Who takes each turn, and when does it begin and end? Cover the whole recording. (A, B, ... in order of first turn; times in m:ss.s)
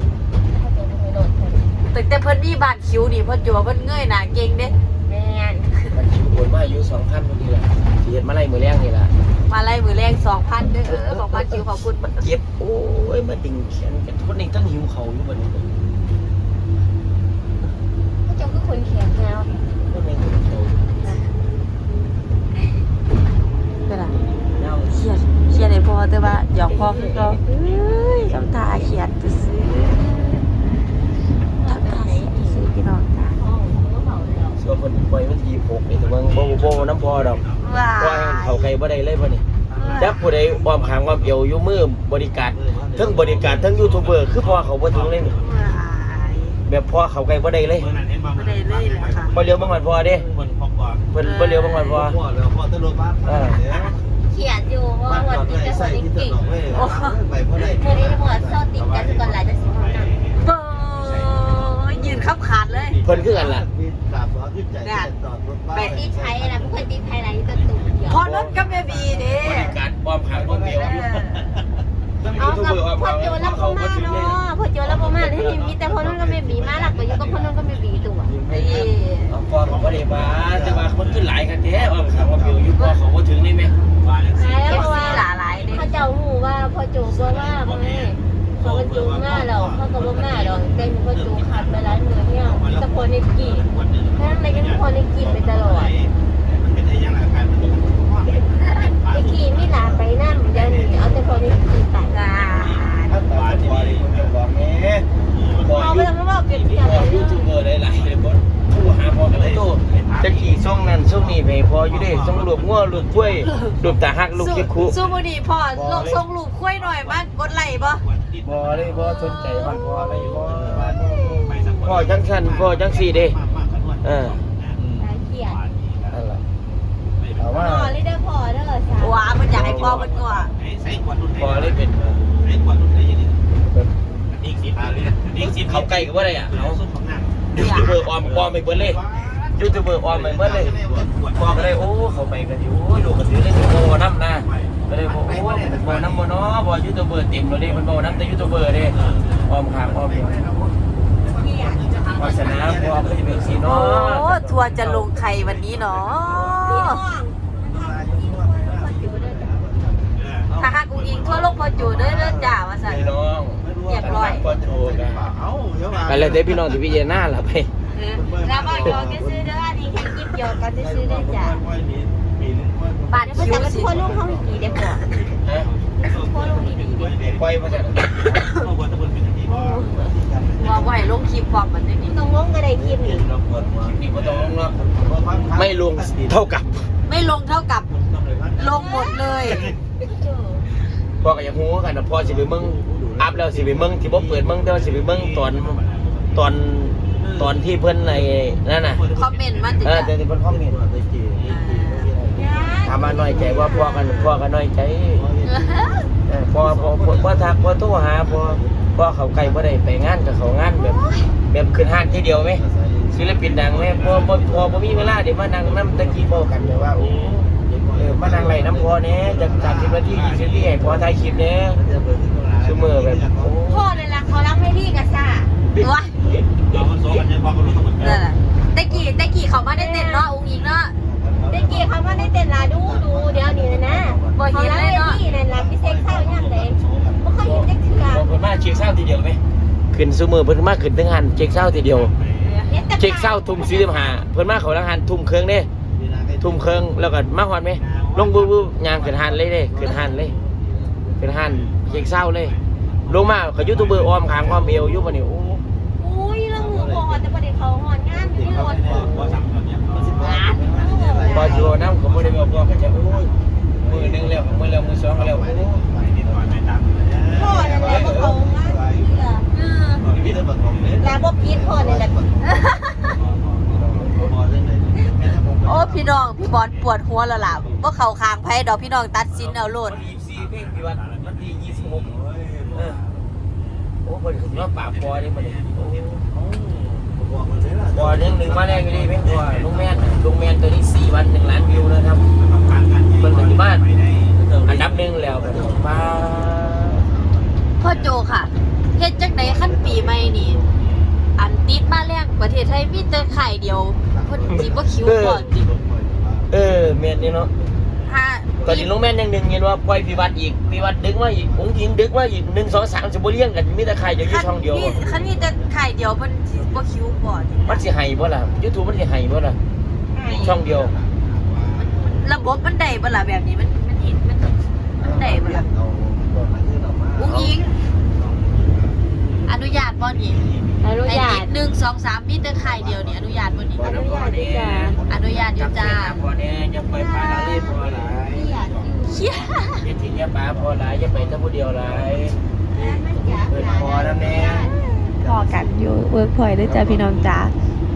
0:00.5-0:01.7 A
0:01.9-0:04.8 B
0:05.0-0:05.7 A
0:05.9-0:09.1 C
0:09.5-0:12.2 B
0:10.7-0:15.7 C
0:18.2-0:19.5 A
0:19.8-0:20.8 C
0:21.0-0:21.3 A
0:23.9-0:24.1 D
0:24.0-0:25.0 C
0:24.9-0:30.4 D
0:25.5-0:27.4 B
0:26.7-0:27.8 A
0:29.6-0:30.0 B
0:31.6-0:32.7 A
0:31.6-0:33.4 D
0:33.2-0:34.6 A
0:34.6-0:37.4 C
0:35.9-0:37.7 E
0:37.6-0:38.7 B
0:38.0-0:39.4 C
0:39.7-0:41.3 E
0:39.8-0:40.2 A
0:40.0-0:45.4 C
0:42.5-0:43.2 F
0:43.2-0:46.0 E
0:45.4-0:46.6 B
0:46.6-0:47.9 C
0:47.8-0:51.1 E
0:48.3-0:49.3 B
0:49.3-0:50.3 C
0:51.1-0:52.2 C
0:51.2-0:52.0 B
0:51.9-0:53.9 F
0:53.2-0:53.6 C
0:54.3-0:56.4 A
0:55.1-0:58.7 F
0:56.3-0:56.8 E
0:56.7-0:57.2 B
0:57.6-1:00.1 A
0:58.7-1:03.4 E
1:00.4-1:03.0 B
1:03.0-1:03.7 C
1:03.2-1:06.9 F
1:04.8-1:05.1 B
1:05.7-1:08.2 A
1:08.1-1:09.8 B
1:08.2-1:08.6 C
1:08.9-1:09.5 F
1:09.4-1:11.4 C
1:10.2-1:10.8 E
1:10.6-1:11.5 B
1:12.2-1:14.4 C
1:12.3-1:18.4 A
1:15.0-1:15.7 E
1:15.2-1:15.6 C
1:16.1-1:16.6 F
1:16.9-1:18.1 E
1:18.4-1:18.6 F
1:18.5-1:19.4 B
1:18.5-1:23.7 C
1:19.6-1:21.3 E
1:20.1-1:20.9 F
1:22.0-1:22.6 F
1:24.0-1:25.9 E
1:24.3-1:36.0 A
1:24.6-1:26.0 B
1:27.0-1:39.8 E
1:38.7-1:42.4 A
1:40.4-1:41.6 E
1:42.1-1:43.2 B
1:42.4-1:44.4 E
1:43.1-1:45.1 F
1:45.1-1:45.8 E
1:45.5-1:55.0 C
1:45.6-1:47.5 A
1:49.2-1:54.0 E
1:54.4-1:58.0 B
1:55.0-1:56.2 E
1:55.7-1:56.2 C
1:56.8-2:00.9 E
1:58.4-2:01.0 C
1:59.1-1:59.7 B
1:59.3-1:59.8 A
2:00.7-2:01.8 A
2:00.8-2:01.4 F
2:01.5-2:06.2 E
2:01.8-2:03.4 C
2:04.0-2:04.4 C
2:05.0-2:05.6 A
2:06.1-2:06.4 C
2:07.2-2:07.8 E
2:07.4-2:07.9 C
2:07.5-2:09.4 A
2:09.0-2:10.5 B
2:09.5-2:10.1 C
2:09.6-2:13.5 E
2:11.3-2:12.2 C
2:14.3-2:17.5 E
2:14.8-2:15.2 F
2:15.3-2:16.8 C
2:17.5-2:18.0 B
2:17.5-2:19.0 C
2:18.2-2:22.3 E
2:19.5-2:30.4 C
2:20.2-2:21.0 F
2:23.7-2:26.3 E
2:27.6-2:30.7 E
2:31.3-2:32.0 A
2:31.5-2:33.6 F
2:31.6-2:33.6 E
2:32.1-2:34.8 C
2:33.5-2:37.0 B
2:35.5-2:36.8 E
2:36.6-2:40.0 A
2:37.6-2:42.9 F
2:40.1-2:41.8 E
2:40.6-2:43.1 B
2:42.9-2:45.3 C
2:43.6-2:46.7 F
2:43.8-2:44.4 B
2:45.8-2:46.2 E
2:46.0-2:47.7 C
2:47.9-2:49.3 B
2:48.1-2:49.5 F
2:48.6-2:48.9 E
2:48.8-2:51.6 A
2:50.8-2:51.4 F
2:51.4-2:53.2 E
2:52.7-2:55.0 F
2:53.1-2:54.1 B
2:53.3-2:55.0 A
2:53.9-2:54.4 E
2:55.1-3:00.8 E
2:56.0-2:57.2 A
2:57.3-2:58.0 C
2:58.3-2:58.6 F
2:59.4-3:00.1 A
3:00.1-3:01.1 F
3:00.6-3:02.2 B
3:02.0-3:03.3 A
3:02.8-3:04.0 F
3:03.7-3:04.8 C
3:04.1-3:04.6 E
3:04.8-3:06.9 F
3:05.5-3:06.7 C
3:07.0-3:07.9 B
3:07.9-3:08.8 E
3:08.2-3:08.9 F
3:08.6-3:09.6 B
3:08.6-3:10.7 A
3:09.4-3:09.7 E
3:11.2-3:15.8 C
3:12.2-3:13.5 F
3:13.6-3:16.4 E
3:16.3-3:19.0 C
3:17.1-3:20.0 E
3:19.1-3:20.1 B
3:19.8-3:20.8 C
3:20.5-3:22.8 F
3:21.4-3:21.7 E
3:21.4-3:22.1 B
3:22.3-3:24.3 A
3:22.8-3:25.3 C
3:25.1-3:26.1 F
3:25.5-3:25.8 B
3:26.3-3:30.9 C
3:26.6-3:28.9 F
3:30.7-3:31.3 A
3:31.5-3:37.4 C
3:32.1-3:36.9 F
3:37.0-3:37.3 E
3:37.5-3:40.0 F
3:37.9-3:41.8 C
3:40.0-3:40.8 E
3:41.7-3:43.6 F
3:42.6-3:43.8 C
3:43.6-3:45.5 A
3:45.8-3:46.1 B
3:46.2-3:48.2 E
3:48.0-3:50.9 B
3:49.7-3:50.3 A
3:51.0-3:54.4 F
3:51.5-3:58.3 A
3:54.3-3:55.2 B
3:55.5-3:57.2 F
3:57.4-3:59.4 C
3:59.9-4:02.1 C
4:01.5-4:02.6 E
4:02.4-4:02.7 B
4:02.7-4:04.2 A
4:03.0-4:05.7 C
4:05.9-4:06.8 F
4:06.4-4:10.3 C
4:07.8-4:09.0 E
4:09.1-4:11.3 F
4:11.2-4:12.6 C
4:11.5-4:15.1 E
4:13.1-4:15.6 C
4:16.0-4:19.3 A
4:16.5-4:17.4 F
4:18.2-4:19.4 F
4:18.4-4:20.4 E
4:19.9-4:21.7 F
4:20.2-4:21.6 A
4:21.1-4:21.6 B
4:21.3-4:23.3 C
4:21.6-4:23.5 E
4:23.8-4:26.6 F
4:23.8-4:25.8 C
4:25.9-4:27.9 E
4:27.3-4:29.4 A
4:27.6-4:29.0 F
4:27.6-4:28.3 C
4:29.5-4:30.0 B
4:30.0-4:31.6 E
4:30.0-4:36.2 F
4:31.0-4:32.2 A
4:33.2-4:34.0 E
4:35.6-4:40.0 B
4:36.6-4:37.8 E
4:39.4-4:42.2 C
4:39.9-4:43.9 E
4:42.3-4:43.0 F
4:42.7-4:43.0 C
4:44.0-4:46.2 C
4:44.4-4:46.1 E
4:46.3-4:49.3 F
4:46.6-4:47.5 E
4:47.9-4:52.2 C
4:49.2-4:50.0 E
4:51.4-4:54.6 E
4:53.2-4:53.8 C
4:54.4-4:58.1 F
4:54.6-4:57.0 C
4:57.8-5:00.6 B
4:58.9-5:00.8 F
5:01.4-5:05.6 B
5:04.1-5:08.0 F
5:04.7-5:05.4 C
5:06.5-5:07.5 C
5:08.1-5:08.9 B
5:08.6-5:15.0 C
5:10.4-5:11.6 F
5:14.2-5:17.8 B
5:14.8-5:15.7 F
5:16.5-5:17.4 F
5:17.6-5:19.6 C
5:20.1-5:20.6 A
5:20.2-5:22.3 E
5:20.3-5:20.9 C
5:20.7-5:21.3 F
5:21.7-5:25.6 B
5:25.0-5:29.0 F
5:27.2-5:27.7 B
5:29.4-5:30.5 B
5:30.0-5:30.7 E
5:30.8-5:31.5 A
5:31.0-5:33.9 B
5:32.4-5:34.0 F
5:33.7-5:38.5 C
5:33.8-5:35.0 A
5:34.8-5:35.4 F
5:34.9-5:36.2 B
5:37.0-5:37.7 A
5:37.6-5:38.9 F
5:38.2-5:39.5 A
5:39.1-5:39.9 B
5:39.8-5:42.4 C
5:40.0-5:42.2 F
5:42.7-5:44.7 A
5:43.3-5:44.5 F
5:43.5-5:44.6 C
5:44.8-5:47.5 D
5:45.2-5:45.7 F
5:46.7-5:47.3 F